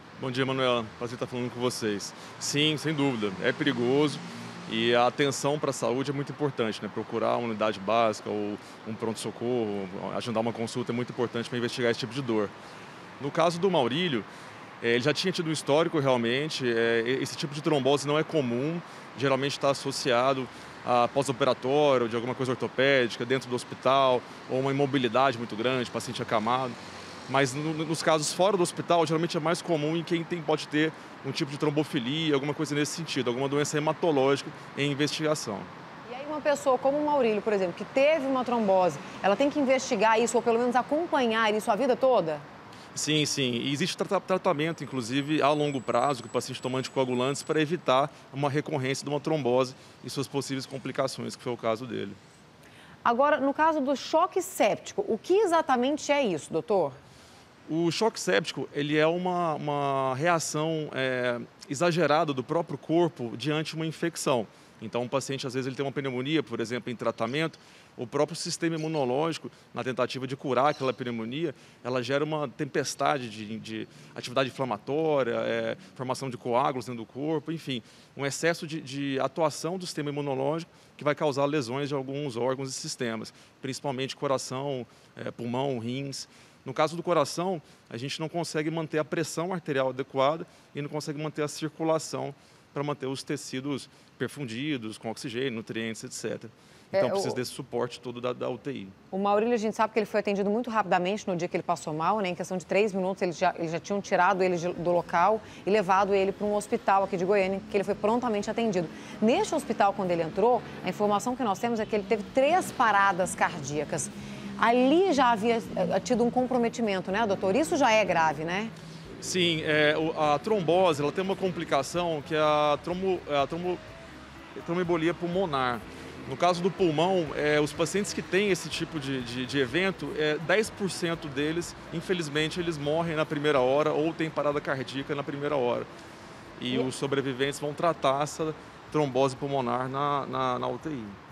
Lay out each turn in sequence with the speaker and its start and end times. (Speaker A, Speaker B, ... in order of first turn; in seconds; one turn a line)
Speaker A: 0.2-12.5
Speaker A: 13.2-14.3
Speaker A: 14.8-26.8
Speaker A: 27.3-35.7
Speaker B: 36.1-42.5
Speaker A: 43.0-52.2
Speaker B: 53.0-57.0
Speaker A: 57.7-99.0
Speaker B: 96.9-97.4
Speaker B: 99.1-118.7
Speaker A: 119.2-123.8
Speaker A: 124.6-135.9
Speaker A: 136.6-141.2